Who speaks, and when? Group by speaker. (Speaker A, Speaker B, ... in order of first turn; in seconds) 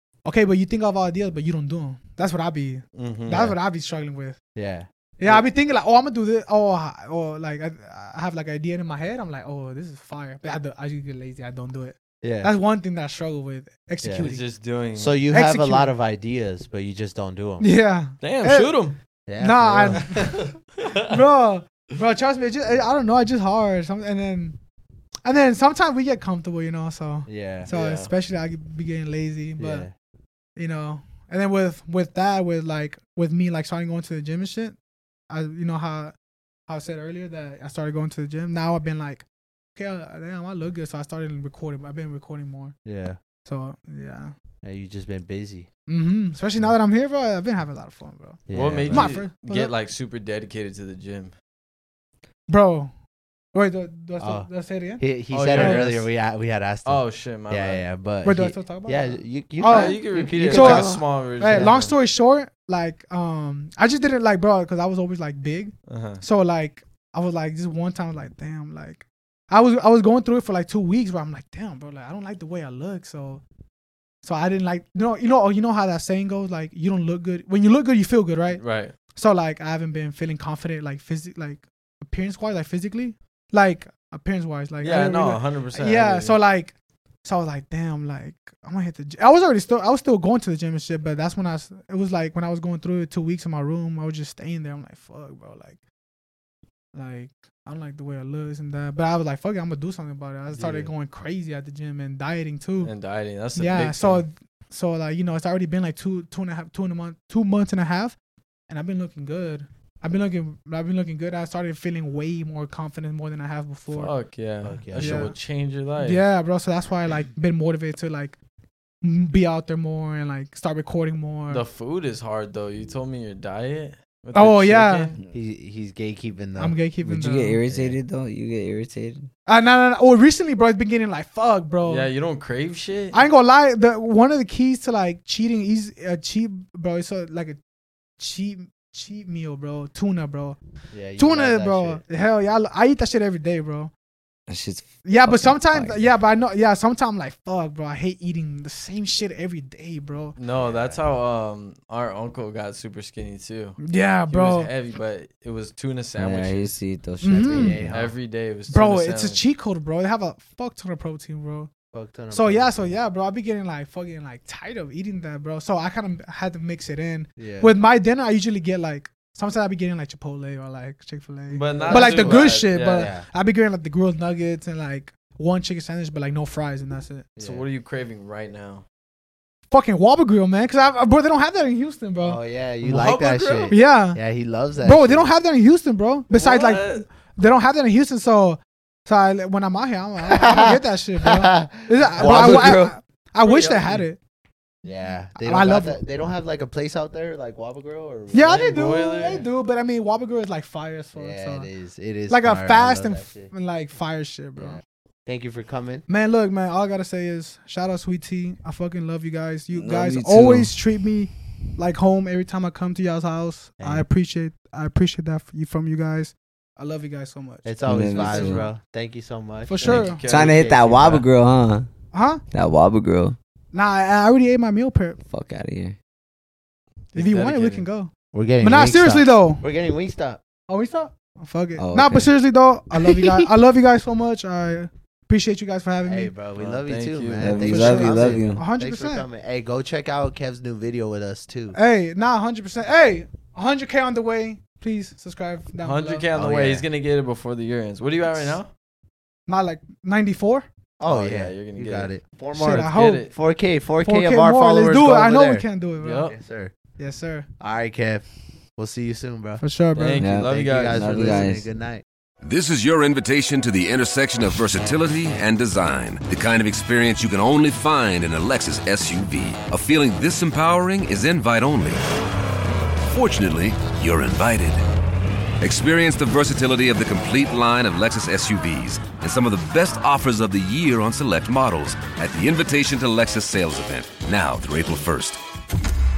Speaker A: 0.2-4.4, 5.2-14.4, 15.3-15.9, 17.6-18.8, 19.4-20.4, 21.1-24.6, 25.2-29.9, 30.6-34.8, 35.3-36.1, 36.7-42.8, 43.5-44.3, 45.9-49.7, 52.5-52.9, 53.5-56.0, 58.2-73.4, 74.2-95.8, 96.9-103.0, 103.5-108.2, 108.7-114.2, 115.0-115.3, 116.0-118.4, 119.0-121.6, 124.3-125.1, 126.6-127.6, 129.5-132.1, 133.1-137.6, 138.2-140.6, 141.2-143.9, 145.1-150.4, 153.8-154.7, 157.2-157.9, 158.7-161.7, 162.3-177.3, 179.7-182.4, 183.7-184.2, 184.8-194.2, 195.4-196.0, 198.3-201.7, 202.3-204.8, 206.1-218.7, 219.7-220.5, 222.1-222.4, 223.7-225.2, 227.1-229.6, 230.7-236.5, 237.6-239.3, 241.7-246.2, 249.5-250.7, 252.6-253.3, 254.0-256.3, 257.0-257.5, 259.6-260.2
Speaker B: 2.9-3.5, 14.2-15.3, 18.2-19.0, 19.9-21.2, 27.7-28.1, 48.5-51.3, 55.3-56.1, 56.9-57.9, 59.6-62.0, 65.9-66.2, 78.6-79.0, 84.8-86.4, 100.5-100.9, 102.8-104.2, 113.9-116.2, 121.5-125.2, 131.8-133.2, 150.4-156.8, 157.9-159.4, 171.5-173.1, 177.4-178.8, 182.8-183.9, 186.3-187.1, 193.4-194.1, 198.4-199.5, 219.8-221.3, 227.1-227.9, 236.5-238.5, 245.8-248.7, 251.0-252.2, 252.8-253.3, 256.0-256.4, 259.9-261.5
Speaker C: 3.3-3.6, 4.5-5.5, 12.2-12.5, 14.0-14.3, 14.9-17.7, 19.3-20.1, 27.3-28.1, 29.6-29.9, 42.9-43.2, 44.6-45.7, 48.5-49.1, 54.2-54.5, 55.0-61.8, 114.6-115.3, 125.3-126.8, 127.7-128.0, 140.9-142.0, 150.6-151.0, 157.3-158.2, 161.9-162.9, 167.4-167.8, 171.8-173.3, 177.4-177.7, 182.2-185.3, 190.2-192.8, 194.8-198.7, 201.2-203.5, 204.6-206.1, 213.8-214.1, 217.7-220.1, 228.3-230.4, 236.0-241.8, 246.3-246.9, 251.0-255.7, 256.3-256.8, 257.6-258.2, 258.8-259.6, 260.2-262.1
Speaker D: 127.0-129.3, 144.5-146.0, 156.2-157.9, 192.2-192.9, 209.7-210.7, 217.9-218.7, 219.8-221.9, 222.5-223.4, 225.2-226.0, 231.8-232.3, 233.0-233.4, 237.4-238.6, 260.2-261.7
Speaker E: 262.4-272.0, 273.1-274.8, 275.6-285.4